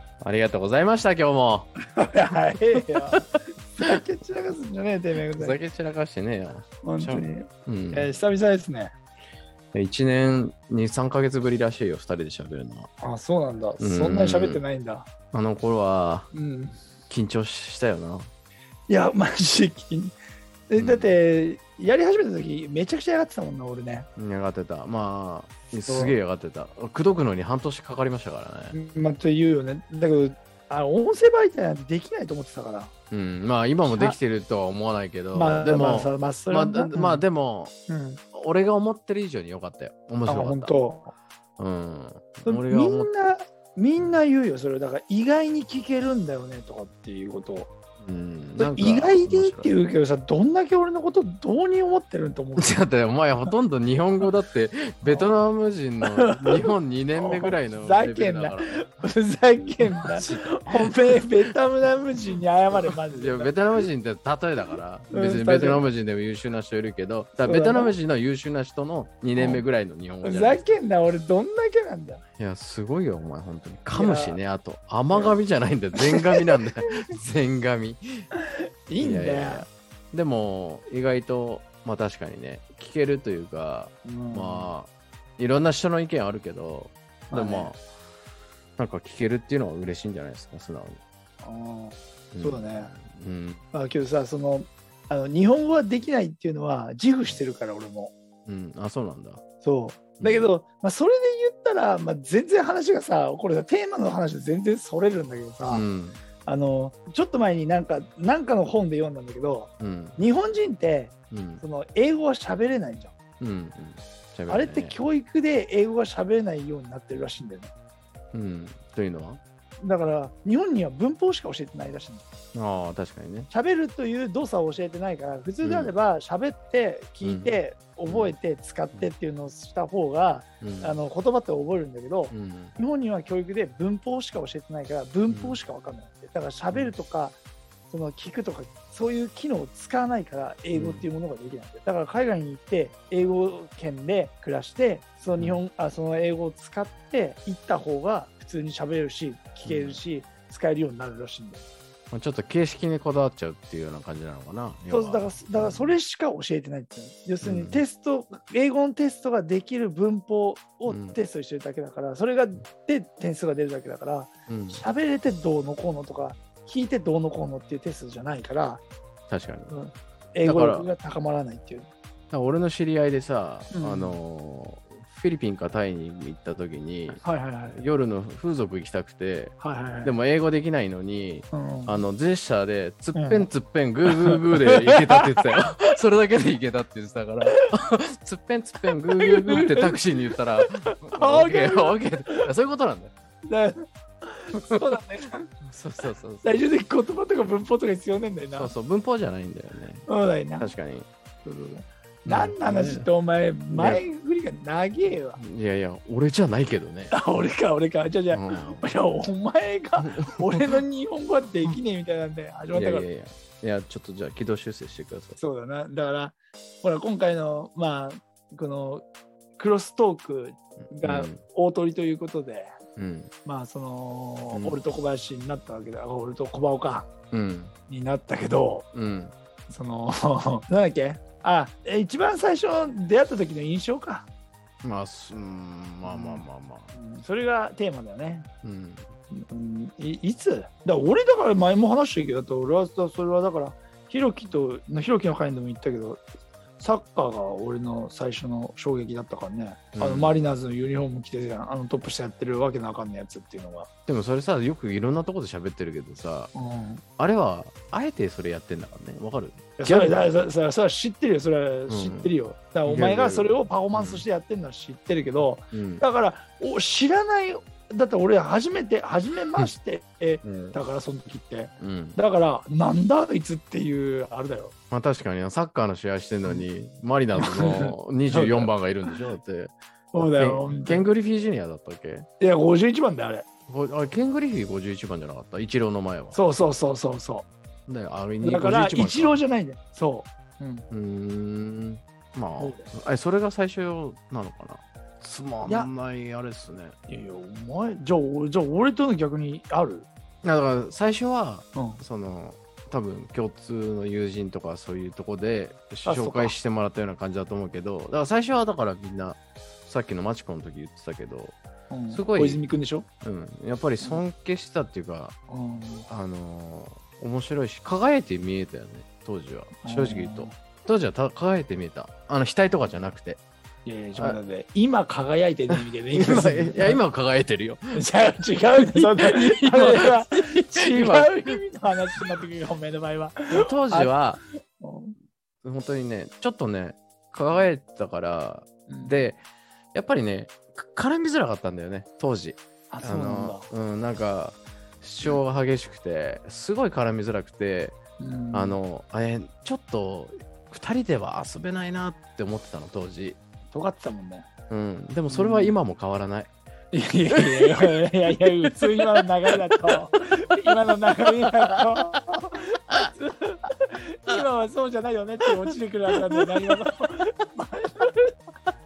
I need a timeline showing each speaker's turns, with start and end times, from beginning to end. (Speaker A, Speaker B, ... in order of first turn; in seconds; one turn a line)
Speaker A: 0.2-1.7
Speaker B: 2.0-5.6
Speaker A: 5.4-8.1
Speaker B: 6.8-8.9
Speaker A: 9.7-12.9
Speaker B: 13.0-15.1
Speaker A: 13.8-14.6
Speaker A: 15.3-16.3
Speaker B: 16.3-16.8
Speaker A: 17.1-18.3
Speaker B: 18.9-20.1
Speaker B: 20.7-24.1
Speaker A: 20.8-21.2
Speaker A: 24.2-28.8
Speaker B: 25.9-26.2
Speaker B: 28.7-32.9
Speaker A: 33.1-37.7
Speaker B: 33.8-34.2
Speaker B: 35.3-37.2
Speaker B: 37.9-38.2
Speaker A: 38.3-40.7
Speaker B: 40.3-41.1
Speaker A: 41.6-43.1
Speaker B: 42.5-47.7
Speaker A: 48.0-49.7
Speaker B: 48.6-52.8
Speaker A: 52.6-58.9
Speaker B: 55.0-55.3
Speaker B: 56.2-63.9
Speaker A: 59.9-61.2
Speaker A: 63.1-70.6
Speaker B: 65.1-65.9
Speaker B: 67.4-68.0
Speaker B: 69.3-69.6
Speaker B: 70.2-72.2
Speaker A: 72.4-78.3
Speaker B: 73.9-74.4
Speaker B: 75.1-75.4
Speaker B: 76.0-76.6
Speaker B: 78.9-79.7
Speaker A: 79.0-87.8
Speaker B: 84.0-84.7
Speaker B: 87.3-87.7
Speaker A: 88.8-91.0
Speaker B: 91.4-92.9
Speaker A: 92.3-93.6
Speaker B: 93.7-98.1
Speaker A: 98.5-99.4
Speaker B: 99.6-105.8
Speaker A: 100.2-100.5
Speaker A: 105.7-106.2
Speaker B: 106.4-113.1
Speaker A: 109.8-110.2
Speaker A: 111.3-111.6
Speaker A: 113.4-115.0
Speaker B: 114.5-117.7
Speaker A: 118.3-119.4
Speaker B: 119.8-122.3
Speaker A: 122.5-123.5
Speaker B: 123.5-137.4
Speaker A: 125.6-125.9
Speaker A: 127.2-128.3
Speaker A: 130.6-131.0
Speaker A: 132.3-132.8
Speaker A: 135.3-135.6
Speaker B: 137.9-151.7
Speaker A: 140.7-141.1
Speaker A: 149.7-150.0
Speaker A: 152.1-155.9
Speaker B: 154.9-168.8
Speaker A: 157.4-157.8
Speaker A: 160.9-161.2
Speaker A: 164.5-164.8
Speaker A: 169.3-169.7
Speaker B: 169.7-171.9
Speaker A: 170.4-170.9
Speaker A: 172.3-193.1
Speaker B: 173.7-174.2
Speaker B: 177.2-177.8
Speaker B: 179.6-180.2
Speaker B: 181.5-182.0
Speaker B: 183.2-183.5
Speaker B: 184.1-185.3
Speaker B: 189.2-190.1
Speaker B: 190.6-192.5
Speaker B: 193.5-195.5
Speaker A: 195.7-196.5
Speaker B: 196.4-198.7
Speaker A: 198.5-200.1
Speaker B: 200.1-200.7
Speaker A: 200.6-201.1
Speaker B: 201.4-205.4
Speaker A: 202.3-203.1
Speaker A: 203.7-204.0
Speaker A: 205.4-207.2
Speaker B: 207.1-213.1
Speaker A: 208.3-208.9
Speaker A: 210.1-210.8
Speaker A: 212.7-215.4
Speaker B: 215.4-219.1
Speaker B: 219.6-222.7
Speaker A: 220.9-221.4
Speaker A: 223.0-223.3
Speaker B: 223.4-227.1
Speaker A: 224.5-224.8
Speaker A: 227.3-227.7
Speaker B: 227.9-228.9
Speaker A: 228.9-229.3
Speaker B: 229.7-234.3
Speaker A: 234.8-236.9
Speaker B: 236.0-238.5
Speaker A: 238.6-239.1
Speaker B: 239.3-246.2
Speaker B: 246.8-253.9
Speaker A: 249.9-250.4
Speaker A: 254.1-256.5
Speaker B: 256.5-257.0
Speaker A: 257.2-260.4
Speaker B: 259.8-274.7
Speaker A: 261.9-262.3
Speaker A: 262.9-264.2
Speaker A: 265.7-266.0
Speaker A: 270.4-270.8
Speaker A: 271.8-272.2
Speaker A: 274.9-282.3
Speaker B: 277.4-279.1
Speaker B: 280.1-281.1
Speaker B: 282.4-283.5
Speaker A: 283.7-286.4
Speaker B: 286.3-287.5
Speaker A: 287.9-289.4
Speaker B: 288.4-290.9
Speaker A: 290.9-296.9
Speaker B: 292.6-292.9
Speaker B: 295.6-295.9
Speaker B: 297.1-300.1
Speaker A: 300.4-311.6
Speaker B: 301.8-302.0
Speaker B: 306.1-306.6
Speaker B: 311.9-313.1
Speaker A: 312.1-312.6
Speaker A: 313.2-315.4
Speaker B: 315.5-316.1
Speaker A: 316.1-323.4
Speaker B: 319.8-320.5
Speaker B: 323.9-327.0
Speaker A: 325.7-328.0
Speaker B: 327.9-335.1
Speaker A: 328.8-331.6
Speaker A: 333.5-334.4
Speaker A: 335.6-339.4
Speaker B: 338.9-339.2
Speaker A: 339.9-348.0
Speaker B: 342.9-343.7
Speaker B: 348.2-348.8
Speaker A: 348.5-353.4
Speaker B: 353.7-354.5
Speaker A: 354.7-356.5
Speaker B: 355.3-355.7
Speaker B: 356.9-368.4
Speaker A: 357.4-357.8
Speaker A: 358.7-359.9
Speaker A: 366.1-366.9